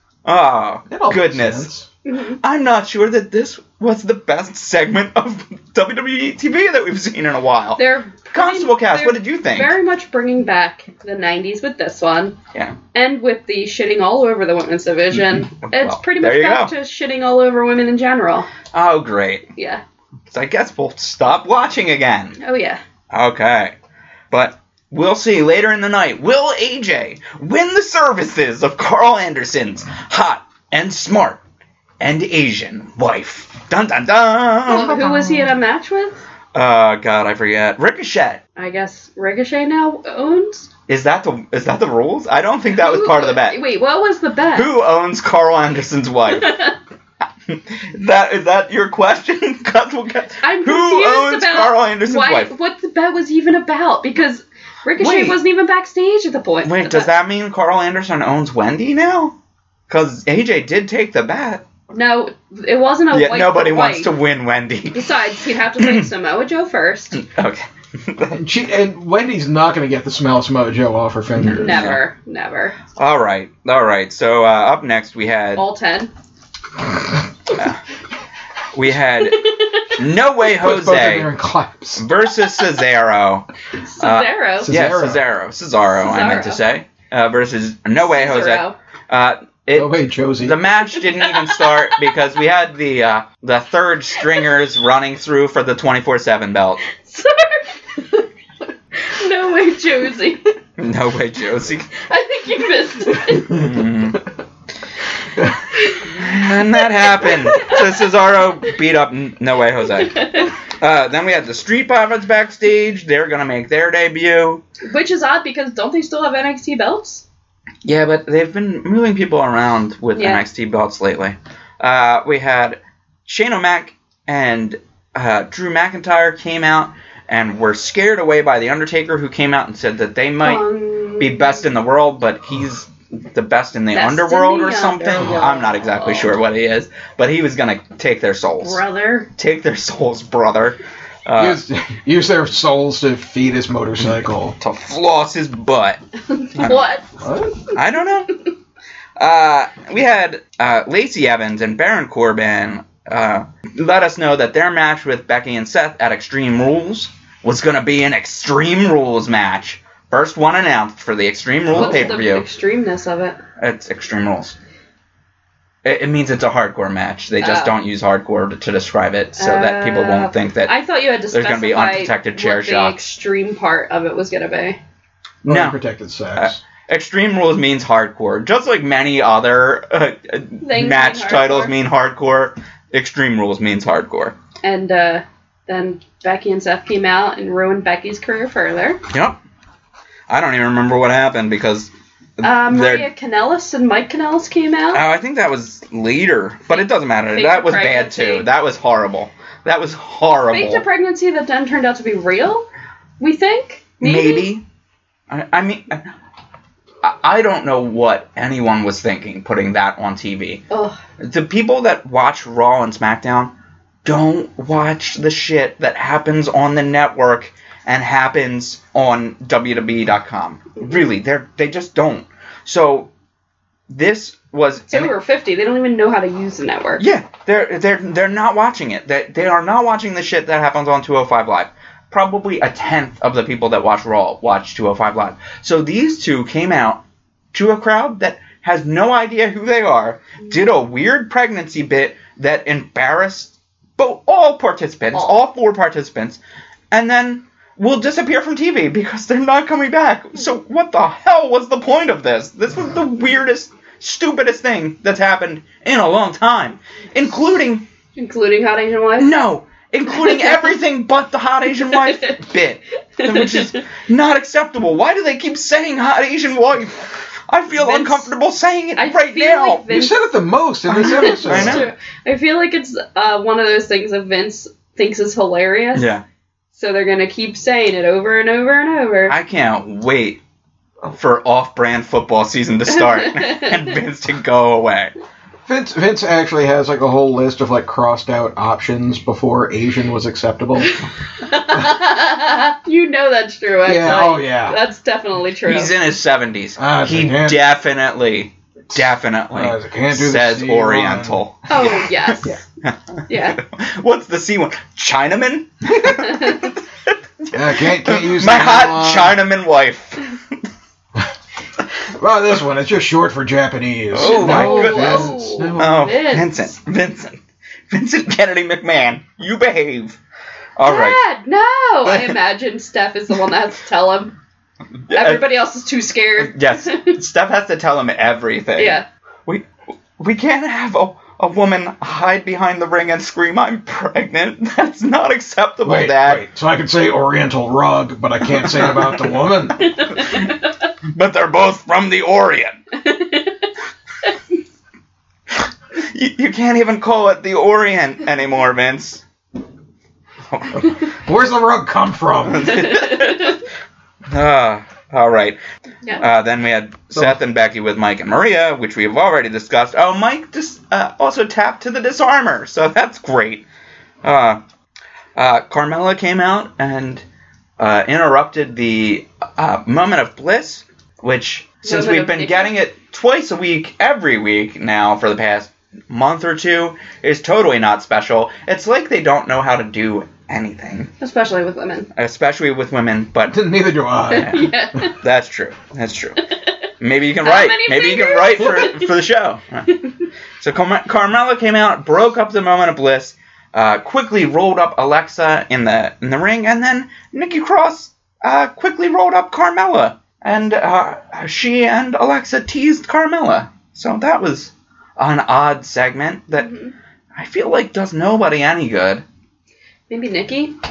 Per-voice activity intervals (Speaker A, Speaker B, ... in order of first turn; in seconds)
Speaker A: 0.2-1.7, 2.4-9.8, 15.3-16.7, 18.7-19.5, 20.3-22.4, 23.1-23.8, 24.3-31.4, 32.0-35.0, 36.5-38.4, 40.9-43.6, 44.5-46.6, 47.5-52.5, 55.0-55.4, 56.6-59.4, 59.9-61.6, 63.1-65.2, 65.8-66.1, 67.2-68.4, 71.4-72.0, 73.0-75.6, 77.5-77.8, 78.7-81.3, 82.0-83.5, 84.0-96.8, 100.8-101.9, 103.3-104.3, 106.0-114.6, 117.8-138.8, 139.4-141.6, 144.6-146.0, 146.6-146.9, 147.7-148.3, 149.2-162.5, 163.6-164.6, 165.8-170.8, 171.3-173.1, 175.4-175.8, 176.4-184.3, 189.1-189.4, 190.3-193.1, 194.9-200.8, 204.0-204.6, 205.3-206.1, 207.0-210.7, 211.2-213.5, 214.1-223.1, 223.9-225.1, 227.0-237.0, 237.5-246.4, 246.9-257.9, 259.2-269.9, 270.9-271.9, 275.9-276.2, 279.3-280.4, 281.1-285.1, 295.7-306.8, 308.0-310.4, 314.1-317.4, 317.9-320.2, 320.8-321.2, 322.1-322.4, 325.1-325.6, 326.4-329.6, 330.2-336.4, 338.6-340.6, 341.1-342.8, 346.0-349.2, 350.5-350.9, 352.5-353.6, 354.3-355.6, 356.2-363.6, 364.2-364.6, 365.4-367.2, 367.8-381.1, 382.1-383.6, 384.3-386.4, 387.0-389.9, 390.6-406.7, 407.4-409.2
Speaker B: 0.9-1.9, 34.9-35.5, 68.3-71.9, 80.5-82.1, 84.6-85.2, 89.7-90.6, 141.4-144.6, 147.2-147.6, 175.5-176.6, 269.9-271.9, 285.7-291.0, 293.9-294.8, 296.8-297.6, 299.5-301.4, 307.5-309.4, 312.1-316.1, 335.8-339.8, 350.9-352.9, 383.5-384.6
Speaker C: 2.1-2.4, 7.8-12.4, 12.9-18.5, 19.6-19.8, 22.4-22.8, 34.7-36.2, 38.6-40.7, 42.7-44.7, 46.3-46.7, 50.4-57.1, 61.9-64.1, 64.9-67.2, 71.5-72.8, 75.6-76.1, 79.4-80.0, 83.8-84.7, 86.0-86.6, 88.0-88.8, 91.0-92.2, 96.9-98.3, 98.9-100.6, 101.9-103.7, 105.7-107.9, 110.0-110.5, 114.8-117.2, 120.2-120.4, 130.4-131.6, 133.9-136.3, 138.6-139.3, 146.3-147.1, 161.8-163.4, 167.4-167.8, 169.4-174.8, 180.6-181.7, 184.6-189.0, 192.4-195.0, 196.7-198.5, 200.5-202.7, 203.2-204.5, 210.7-211.0, 224.9-227.0, 258.2-259.3, 260.2-260.7, 261.8-262.4, 263.2-263.8, 267.7-268.3, 269.0-270.2, 271.0-276.1, 276.7-279.4, 282.9-283.9, 291.4-295.9, 301.7-302.5, 303.3-303.6, 306.1-306.7, 314.2-316.7, 320.8-324.4, 325.1-327.2, 328.8-329.1, 339.8-340.6, 342.9-343.7, 352.8-353.6, 371.8-372.7, 381.2-382.1, 384.3-385.2, 387.4-389.1, 406.6-406.9, 410.1-410.7